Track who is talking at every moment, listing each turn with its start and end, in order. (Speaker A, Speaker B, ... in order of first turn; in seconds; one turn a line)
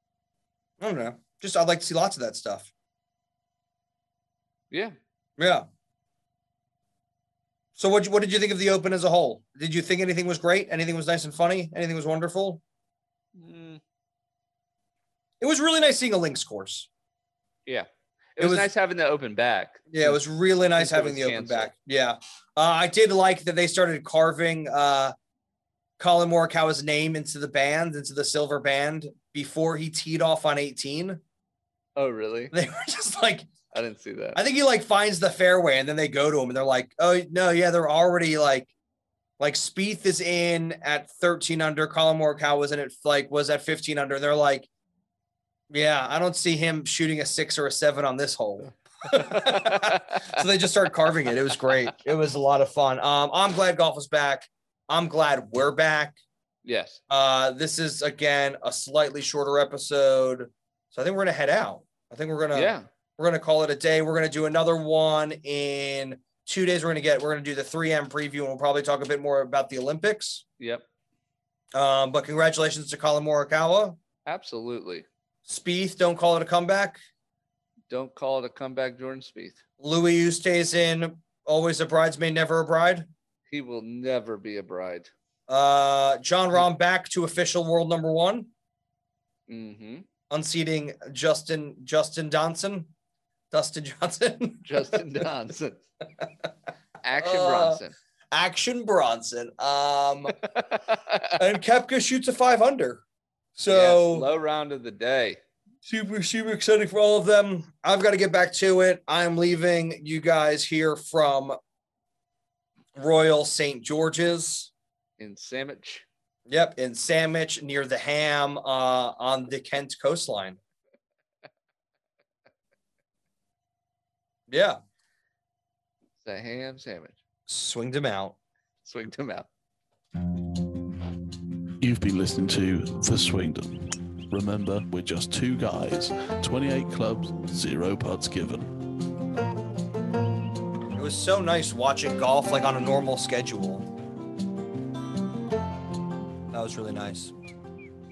Speaker A: 0.8-2.7
Speaker B: 4.7-5.0
Speaker A: 5.4-5.7
Speaker A: 7.8-12.6
Speaker B: 13.3-13.8
Speaker A: 15.4-16.9
Speaker B: 17.7-20.2
Speaker A: 18.4-18.7
Speaker A: 19.9-25.1
Speaker B: 20.8-21.7
Speaker A: 26.0-31.2
Speaker B: 32.0-32.5
Speaker A: 32.5-33.5
Speaker B: 33.7-34.4
Speaker A: 34.4-38.7
Speaker A: 39.4-44.7
Speaker A: 45.7-56.2
Speaker B: 49.1-50.4
Speaker B: 56.6-57.0
Speaker A: 57.1-70.4
Speaker B: 62.5-62.9
Speaker B: 70.6-70.8
Speaker A: 71.7-74.0
Speaker B: 74.3-75.1
Speaker A: 75.5-77.0
Speaker B: 77.9-79.6
Speaker A: 79.8-83.1
Speaker B: 83.5-85.1
Speaker A: 85.5-88.5
Speaker B: 89.5-90.1
Speaker A: 90.3-92.9
Speaker A: 93.5-95.2
Speaker B: 94.7-95.8
Speaker B: 97.0-98.0
Speaker A: 97.2-97.8
Speaker A: 98.3-100.4
Speaker B: 100.6-101.3
Speaker A: 101.3-103.0
Speaker A: 103.6-104.3
Speaker B: 103.7-105.4
Speaker A: 105.8-111.6
Speaker A: 113.0-114.7
Speaker B: 115.2-116.1
Speaker A: 116.5-120.6
Speaker A: 124.5-124.8
Speaker B: 126.2-127.2
Speaker A: 127.5-128.4
Speaker B: 128.8-129.5
Speaker C: 131.8-138.7
Speaker A: 140.9-143.9
Speaker A: 146.5-147.3